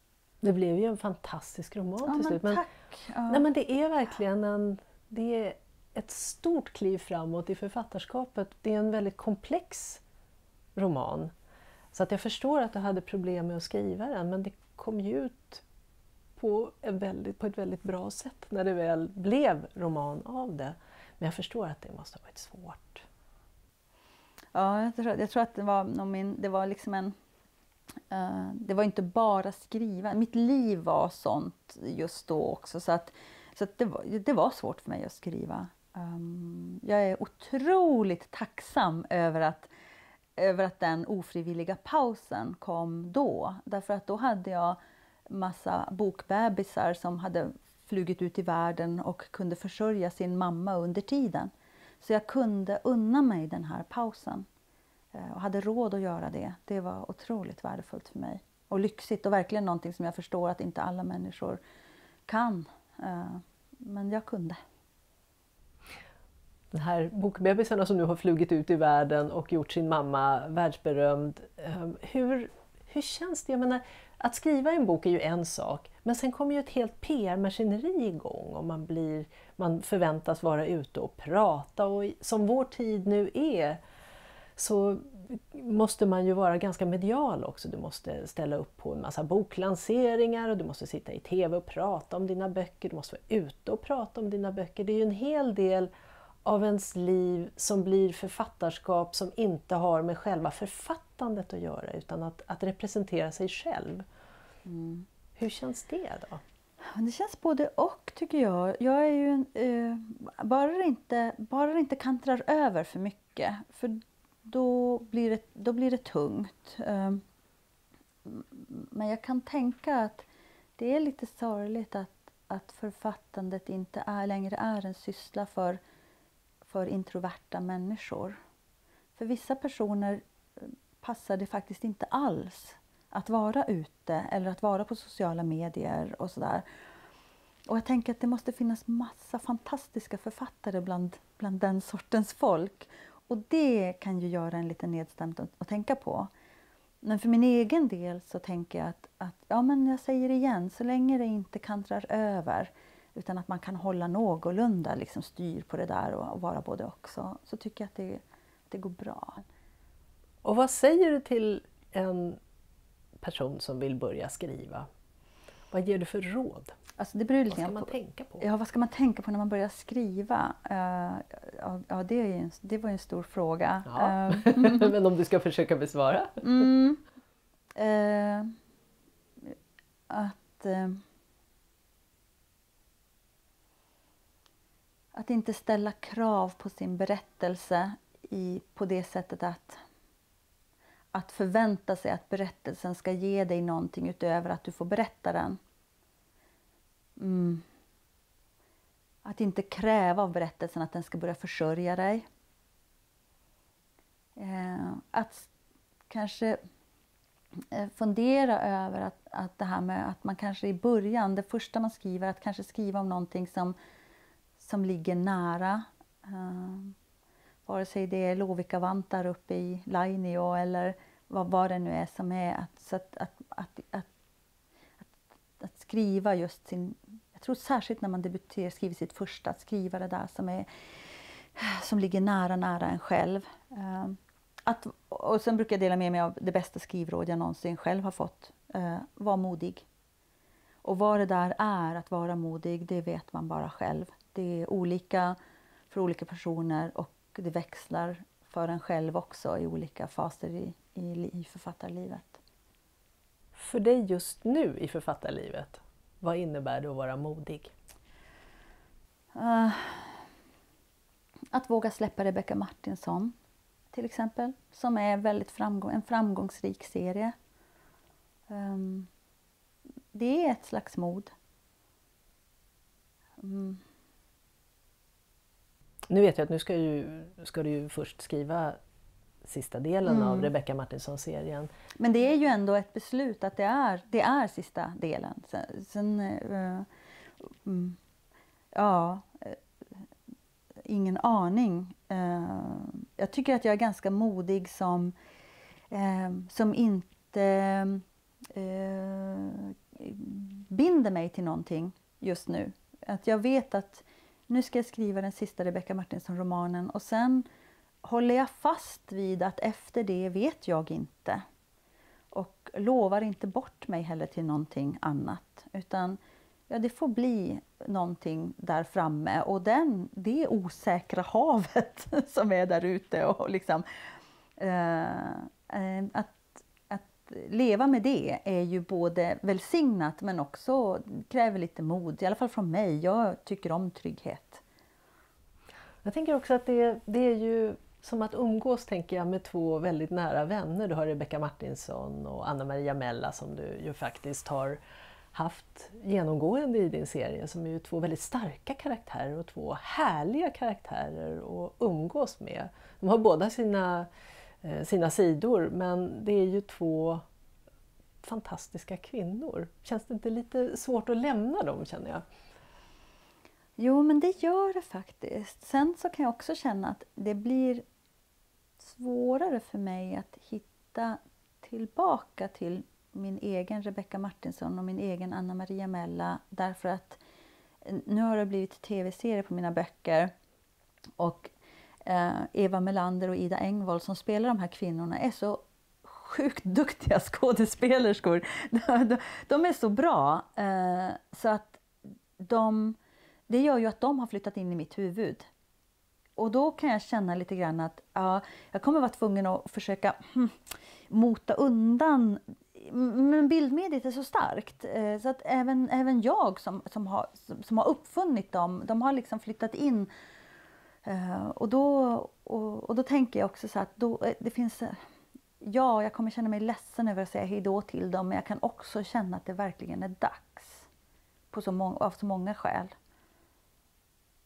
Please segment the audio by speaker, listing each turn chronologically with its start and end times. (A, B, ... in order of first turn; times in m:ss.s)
0:00.4-0:02.6 A
0:02.0-0:03.4 B
0:03.3-0:10.0 A
0:10.7-0:11.3 A
0:11.9-0:15.6 A
0:16.4-0:23.0 A
0:24.5-0:27.1 B
0:28.1-0:39.7 B
0:40.4-0:44.8 B
0:45.3-0:54.4 B
0:55.1-1:01.6 B
1:02.3-1:04.6 B
1:06.7-1:23.8 A
1:24.6-1:35.9 A
1:36.4-1:44.0 A
1:44.6-1:45.0 B
1:45.4-1:46.4 A
1:46.9-1:57.2 B
1:58.2-2:00.2 B
2:00.8-2:05.8 B
2:06.6-2:08.4 B
2:09.2-2:16.6 B
2:17.7-2:26.3 B
2:27.0-2:39.4 B
2:40.4-2:42.4 A
2:43.2-2:44.9 A
2:45.7-2:46.7 A
2:47.0-2:54.9 B
2:47.5-2:48.4 A
2:53.9-2:56.6 A
2:56.4-2:57.0 B
2:57.8-2:58.5 B
3:00.1-3:01.0 B
3:05.1-3:09.8 B
3:11.1-3:15.6 B
3:17.2-3:17.6 B
3:19.2-3:22.2 B
3:24.4-3:25.5 B
3:26.1-3:26.6 B
3:27.7-3:33.8 B
3:34.6-3:36.9 B
3:37.6-3:44.1 B
3:45.6-3:50.7 B
3:51.6-3:59.8 B
4:00.8-4:05.4 B
4:05.9-4:12.4 B
4:13.5-4:17.7 A
4:19.3-4:20.2 B
4:21.5-4:23.3 B
4:23.9-4:27.3 B
4:28.5-4:29.1 B
4:30.1-4:31.3 B
4:33.4-4:33.8 B
4:36.1-4:38.8 A
4:39.4-4:41.7 A
4:40.0-4:40.5 B
4:42.0-4:46.9 B
4:47.4-4:48.0 B
4:48.7-4:49.6 B
4:50.8-4:55.1 B
4:55.9-5:07.5 B
5:08.0-5:11.4 B
5:12.3-5:23.8 B
5:24.6-5:34.6 B
5:36.0-5:44.8 A
5:45.3-5:54.1 A
5:54.6-5:57.2 A
5:58.2-6:02.2 A
6:03.8-6:07.8 B
6:08.8-6:17.2 B
6:17.8-6:20.3 B
6:21.2-6:21.5 B
6:22.0-6:31.8 B
6:32.4-6:33.0 B
6:33.5-6:35.5 B
6:36.4-6:40.6 B
6:41.1-6:50.1 B
6:51.0-6:55.0 B
6:55.6-7:00.9 B
7:01.5-7:02.9 B